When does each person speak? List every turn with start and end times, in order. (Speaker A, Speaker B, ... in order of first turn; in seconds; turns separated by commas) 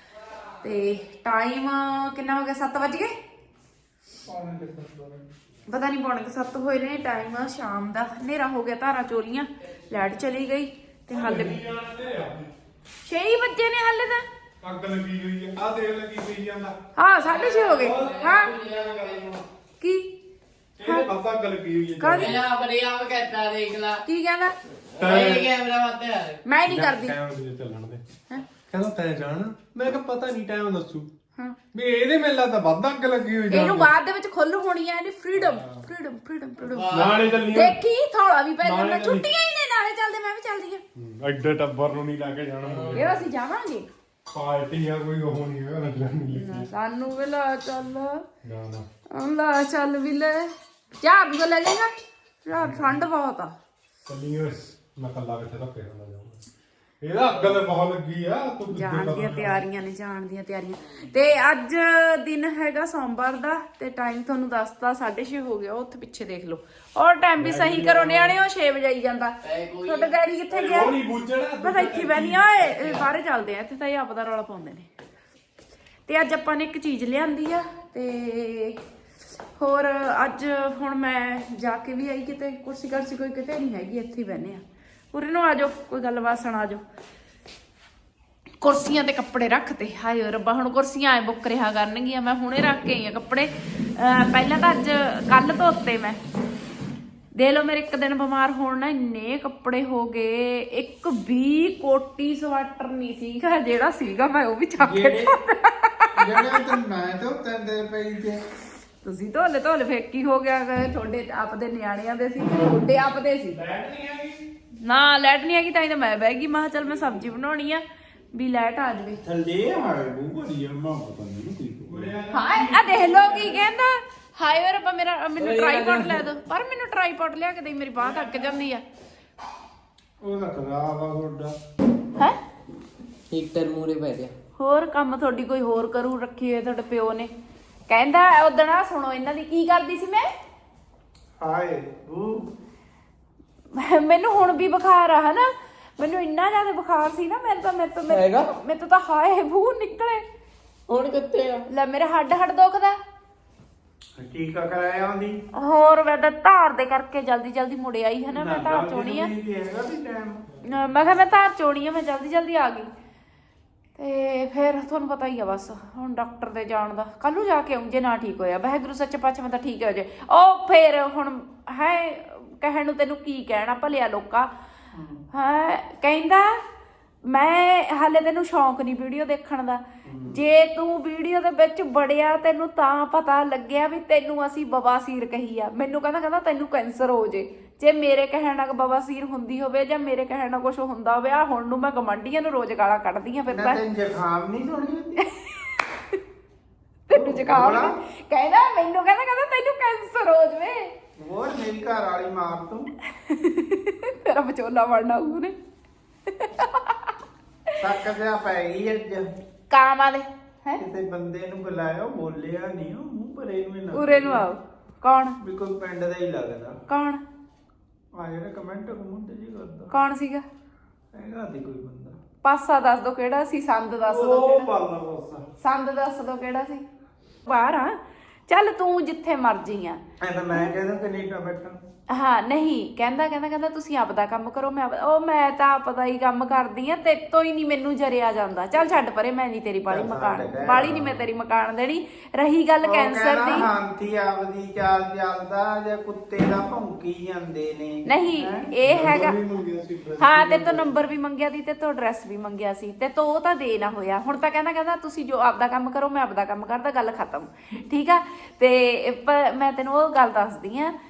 Speaker A: 0.6-3.1, Speaker B: 4.3-5.2, Speaker A: 5.7-11.6, Speaker C: 11.1-12.5, Speaker A: 13.0-14.2, Speaker C: 14.6-16.8, Speaker A: 16.9-18.6, Speaker D: 17.3-19.4, Speaker C: 17.8-19.4, Speaker A: 19.8-20.1, Speaker C: 20.8-22.5, Speaker A: 20.8-21.1, Speaker A: 22.0-22.4, Speaker D: 22.1-24.0, Speaker A: 24.0-24.6, Speaker D: 24.9-26.4, Speaker C: 25.0-25.6, Speaker A: 26.4-27.2, Speaker C: 26.7-28.0, Speaker C: 28.7-31.1, Speaker C: 31.7-33.9, Speaker A: 33.5-40.8, Speaker C: 35.4-35.8, Speaker D: 36.7-37.4, Speaker C: 36.9-37.8, Speaker C: 38.6-39.2, Speaker C: 41.0-43.2, Speaker D: 42.6-43.1, Speaker A: 42.9-43.9, Speaker C: 44.3-46.7, Speaker A: 46.3-48.2, Speaker C: 48.4-48.9, Speaker A: 49.1-51.9, Speaker A: 52.4-53.5, Speaker C: 52.5-53.0, Speaker C: 54.0-56.4, Speaker C: 57.0-59.6, Speaker A: 58.7-71.0, Speaker C: 67.4-68.3, Speaker D: 69.4-70.1, Speaker C: 70.5-73.1, Speaker A: 71.6-74.9, Speaker A: 76.1-78.8, Speaker A: 79.6-86.8, Speaker A: 88.6-96.2, Speaker A: 97.3-106.5, Speaker B: 104.8-105.3, Speaker B: 106.2-108.4, Speaker A: 109.0-113.6, Speaker C: 113.5-114.4, Speaker A: 114.8-117.8, Speaker A: 118.3-119.2, Speaker B: 119.2-122.1, Speaker C: 121.8-123.7, Speaker A: 122.3-128.8, Speaker D: 125.4-126.2, Speaker B: 130.2-131.5, Speaker D: 133.3-134.3, Speaker A: 134.6-137.3, Speaker A: 137.9-140.3, Speaker B: 141.4-142.5, Speaker A: 143.7-150.2, Speaker D: 148.1-148.5, Speaker D: 150.9-151.7, Speaker A: 151.7-153.0, Speaker B: 154.2-155.4, Speaker A: 155.5-159.3, Speaker B: 158.3-160.4, Speaker A: 160.6-162.9, Speaker A: 164.0-174.5, Speaker B: 174.9-175.2, Speaker A: 175.3-176.6, Speaker A: 177.3-193.8, Speaker B: 180.0-180.4, Speaker B: 193.5-195.2, Speaker A: 195.2-196.2, Speaker A: 197.1-200.9, Speaker B: 197.1-197.9, Speaker B: 201.2-202.9, Speaker A: 203.1-205.5, Speaker A: 206.3-207.1, Speaker B: 207.8-209.3, Speaker A: 209.7-210.8, Speaker B: 210.8-214.5, Speaker A: 213.9-215.4, Speaker B: 215.4-216.8, Speaker A: 216.9-217.2, Speaker B: 218.1-219.9, Speaker A: 219.9-220.4, Speaker B: 221.1-222.2, Speaker A: 222.4-224.7, Speaker B: 224.1-225.4, Speaker A: 225.6-226.8, Speaker A: 227.4-228.0, Speaker A: 228.5-230.0, Speaker B: 230.2-231.8, Speaker A: 232.1-243.7, Speaker B: 239.9-241.2, Speaker B: 242.8-248.7, Speaker A: 248.1-249.4, Speaker C: 248.8-250.9, Speaker A: 250.2-260.9